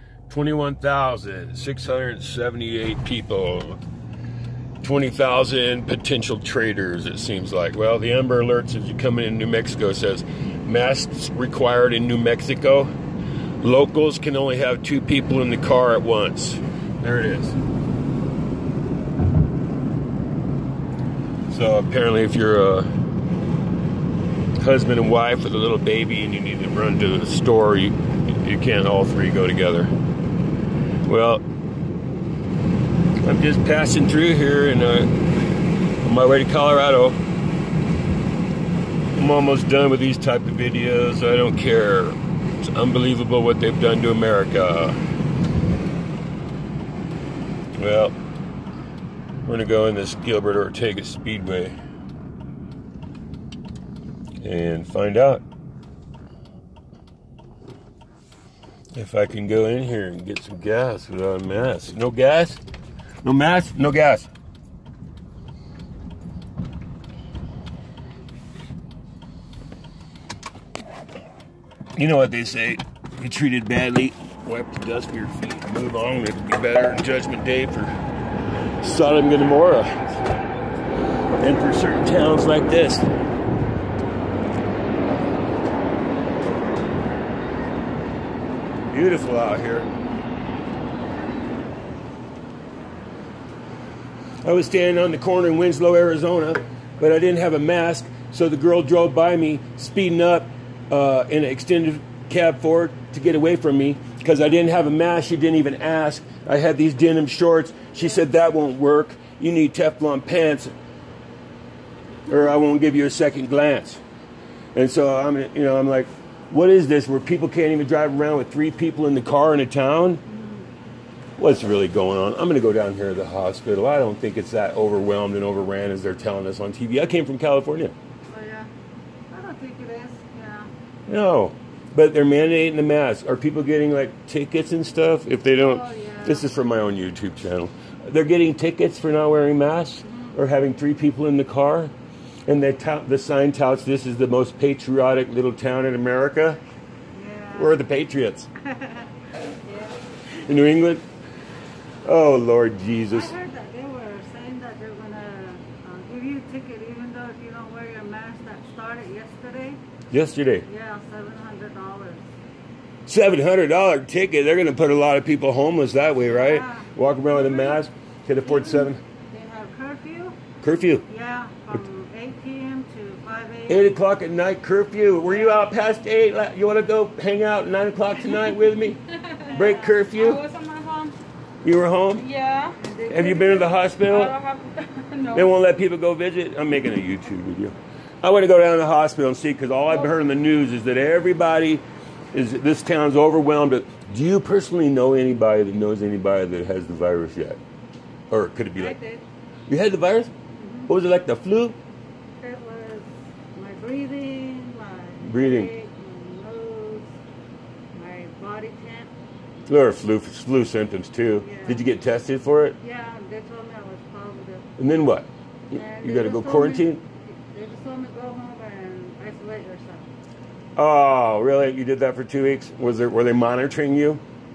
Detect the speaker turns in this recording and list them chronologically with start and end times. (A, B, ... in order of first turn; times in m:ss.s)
0:00.3-0:03.8 A
0:04.8-0:12.9 A
0:13.6-0:17.6 A
0:21.5-0:22.9 A
0:24.6-0:29.9 A
0:31.0-0:31.4 A
0:33.2-0:35.1 A
0:36.0-0:37.2 A
0:39.1-0:45.0 A
0:47.8-0:48.1 A
0:49.4-0:51.7 A
0:54.4-0:55.4 A
0:58.9-1:02.6 A
1:03.2-1:04.3 A
1:12.0-1:17.9 A
1:18.8-1:20.2 A
1:21.4-1:23.1 A
1:28.9-1:29.9 A
1:34.4-1:50.7 A
1:52.3-1:54.0 A
1:54.7-2:00.2 A
2:00.3-2:00.6 B
2:01.4-2:07.9 A
2:08.3-2:08.7 B
2:09.3-2:10.7 B
2:11.1-2:21.9 A
2:15.6-2:16.5 B
2:20.0-2:20.4 B
2:22.5-2:26.6 A
2:27.1-2:27.8 B
2:27.6-2:28.5 A
2:28.6-2:29.1 B
2:29.6-2:30.0 B
2:30.3-2:31.0 A
2:32.0-2:33.3 A
2:33.1-2:39.8 B
2:40.1-2:40.6 A
2:40.7-2:42.2 B
2:43.1-2:49.0 A
2:46.2-2:47.8 B
2:48.4-2:50.4 B
2:50.6-2:51.0 A
2:51.1-2:53.9 B
2:53.7-2:59.0 A
2:55.3-2:55.6 B
2:59.3-3:01.1 B
2:59.5-3:00.4 A
3:00.2-3:01.1 C
3:01.6-3:02.3 A
3:02.2-3:02.7 C
3:02.7-3:05.4 B
3:03.1-3:04.4 A
3:04.1-3:05.1 C
3:05.3-3:17.6 A
3:18.3-3:19.0 A
3:18.8-3:19.2 B
3:19.7-3:20.3 A
3:20.5-3:20.9 B
3:20.9-3:21.8 A
3:22.4-3:27.1 B
3:25.2-3:25.7 A
3:27.9-3:29.1 B
3:29.7-3:32.8 A
3:31.4-3:31.8 B
3:32.8-3:34.7 B
3:34.8-3:37.0 A
3:35.7-3:40.1 B
3:40.8-3:44.2 A